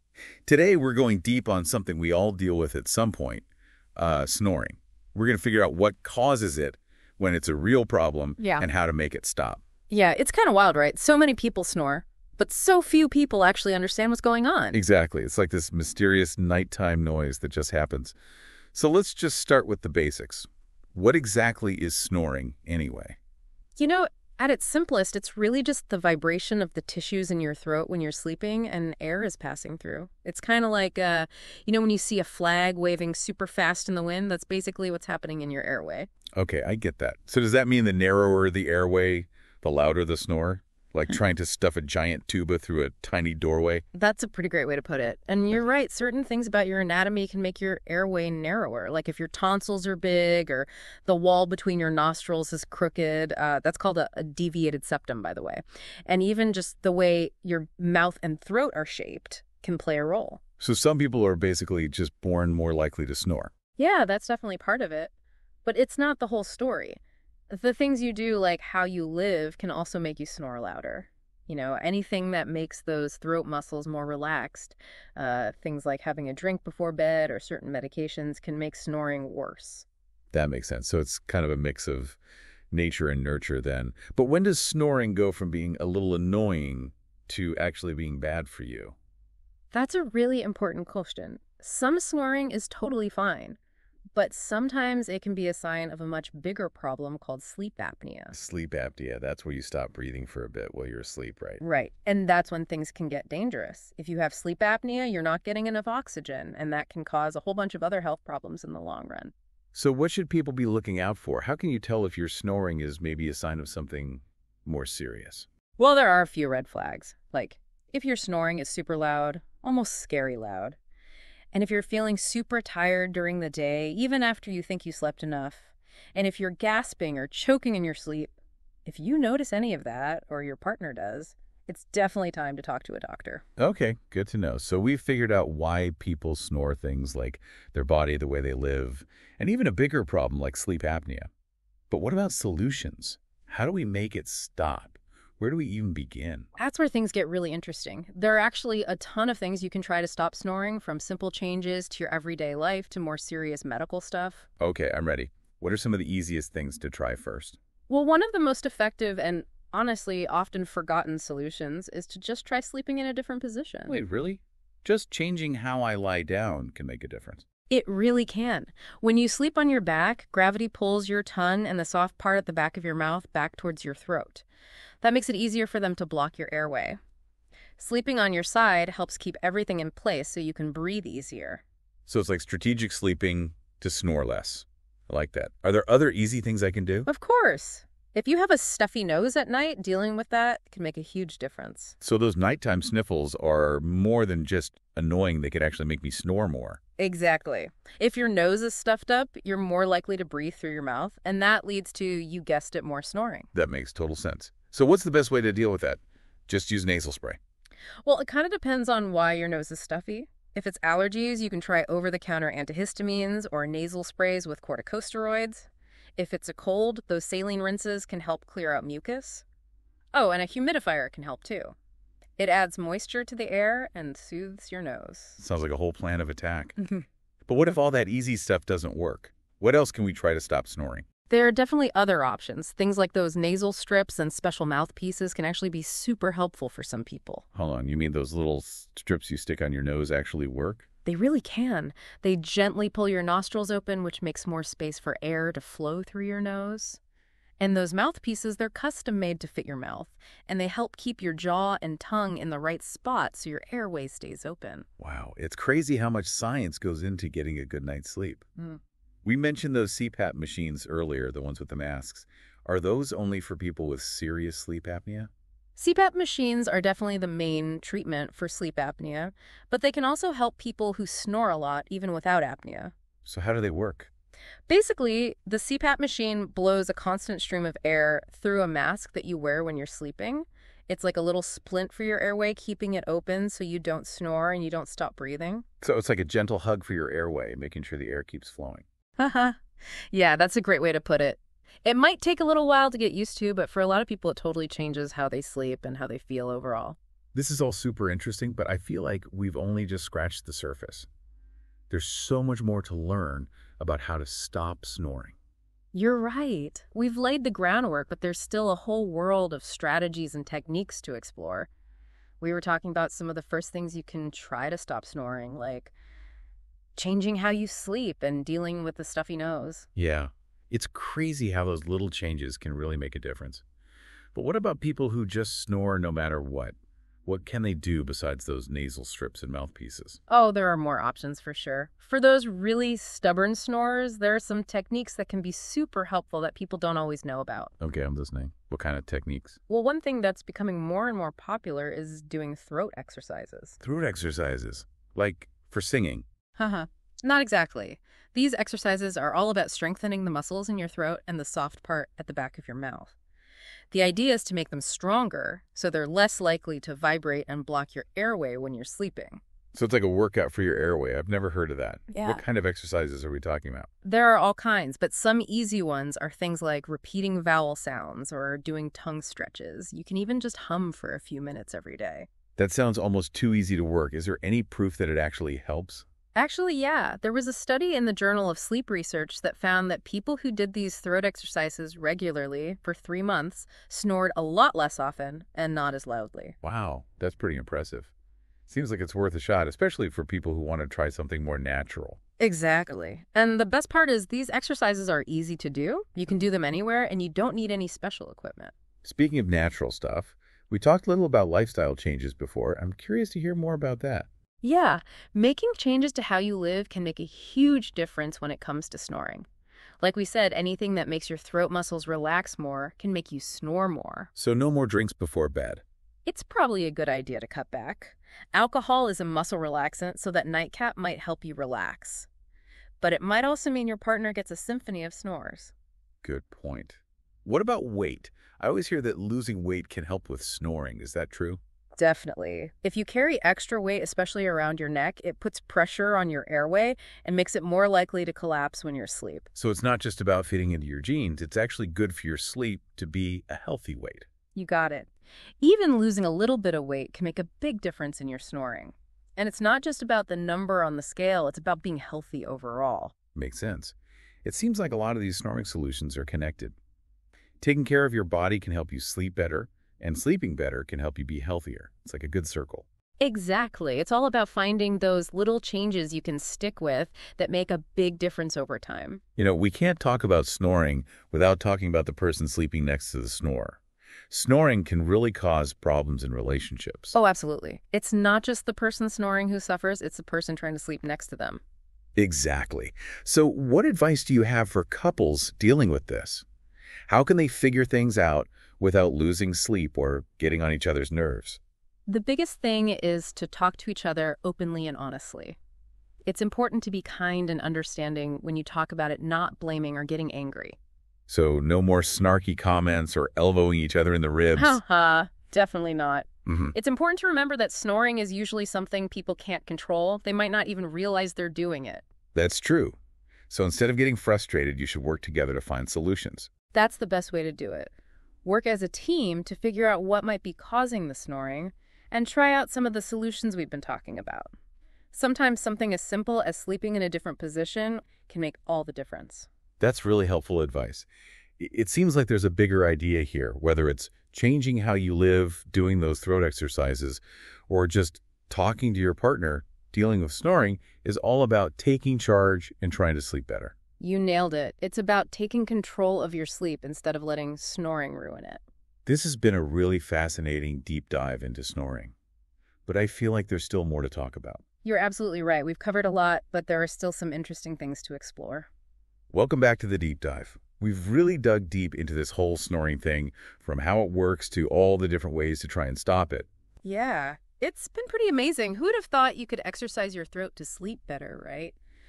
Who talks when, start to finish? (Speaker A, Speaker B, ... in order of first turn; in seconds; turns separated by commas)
Speaker A: 0.5-9.6, Speaker B: 8.4-8.7, Speaker B: 9.9-14.8, Speaker A: 14.7-18.1, Speaker A: 18.7-23.2, Speaker B: 23.8-36.1, Speaker A: 36.4-43.8, Speaker B: 43.9-60.4, Speaker A: 60.6-63.5, Speaker B: 63.8-65.1, Speaker B: 65.7-67.0, Speaker B: 67.5-79.9, Speaker A: 80.3-82.2, Speaker A: 82.7-89.0, Speaker B: 89.7-93.6, Speaker B: 94.1-98.3, Speaker A: 98.3-101.6, Speaker B: 101.6-109.3, Speaker A: 109.7-115.5, Speaker B: 115.8-120.8, Speaker B: 121.5-128.3, Speaker B: 128.9-133.4, Speaker A: 133.6-141.3, Speaker A: 141.9-146.5, Speaker B: 146.6-154.5, Speaker A: 154.6-157.6, Speaker B: 157.9-164.0, Speaker A: 163.9-167.4, Speaker B: 167.7-174.4, Speaker B: 175.0-177.0, Speaker B: 177.8-181.6, Speaker A: 182.1-187.1, Speaker B: 187.1-191.9, Speaker A: 192.0-196.8, Speaker B: 197.0-203.5, Speaker A: 203.5-207.4, Speaker B: 208.0-219.4, Speaker B: 220.1-221.8, Speaker B: 222.4-225.4, Speaker A: 225.4-231.1, Speaker B: 231.3-237.4, Speaker A: 237.5-240.8, Speaker B: 241.1-247.0, Speaker B: 247.6-254.9, Speaker A: 255.0-258.5, Speaker A: 259.2-265.3, Speaker B: 265.8-272.9, Speaker A: 273.2-274.1, Speaker B: 274.7-285.6, Speaker A: 285.8-288.9, Speaker B: 289.2-289.6, Speaker B: 290.1-297.0, Speaker A: 297.3-301.1, Speaker A: 301.9-305.4, Speaker B: 305.9-311.7, Speaker B: 312.4-315.9, Speaker B: 317.0-319.9, Speaker A: 320.0-323.6, Speaker A: 324.4-326.8, Speaker A: 327.3-330.2, Speaker B: 330.3-337.7, Speaker A: 337.8-339.6, Speaker B: 339.7-343.8, Speaker A: 343.8-346.2, Speaker B: 346.6-353.1, Speaker B: 353.9-359.4, Speaker A: 359.7-363.9, Speaker B: 362.1-362.4, Speaker B: 364.0-372.3, Speaker A: 372.6-376.1, Speaker B: 376.4-386.6, Speaker A: 386.6-388.1, Speaker A: 388.7-392.2, Speaker B: 392.4-398.7, Speaker A: 399.0-404.3, Speaker B: 404.6-409.5, Speaker B: 410.0-414.3, Speaker A: 414.4-415.8, Speaker B: 416.3-422.3, Speaker B: 423.0-425.7, Speaker A: 426.2-431.6, Speaker B: 432.0-439.5, Speaker A: 439.5-444.3, Speaker B: 444.6-445.1, Speaker B: 445.6-453.1, Speaker A: 453.4-456.8, Speaker A: 457.6-462.9, Speaker B: 463.2-469.2, Speaker A: 469.4-473.8, Speaker A: 474.3-477.1, Speaker B: 477.1-481.6, Speaker A: 482.2-486.4, Speaker A: 487.1-491.6, Speaker B: 492.1-495.6, Speaker B: 496.2-500.8, Speaker A: 501.3-504.8, Speaker B: 504.6-512.0, Speaker A: 506.5-506.8, Speaker A: 512.4-513.0, Speaker A: 513.5-516.5, Speaker B: 516.7-517.9, Speaker B: 518.4-524.5, Speaker B: 525.1-529.5, Speaker A: 529.8-531.1, Speaker A: 531.6-543.7, Speaker B: 544.0-548.6, Speaker A: 549.1-552.1, Speaker A: 552.9-554.6, Speaker B: 554.8-558.7, Speaker A: 559.3-566.5, Speaker B: 566.8-571.8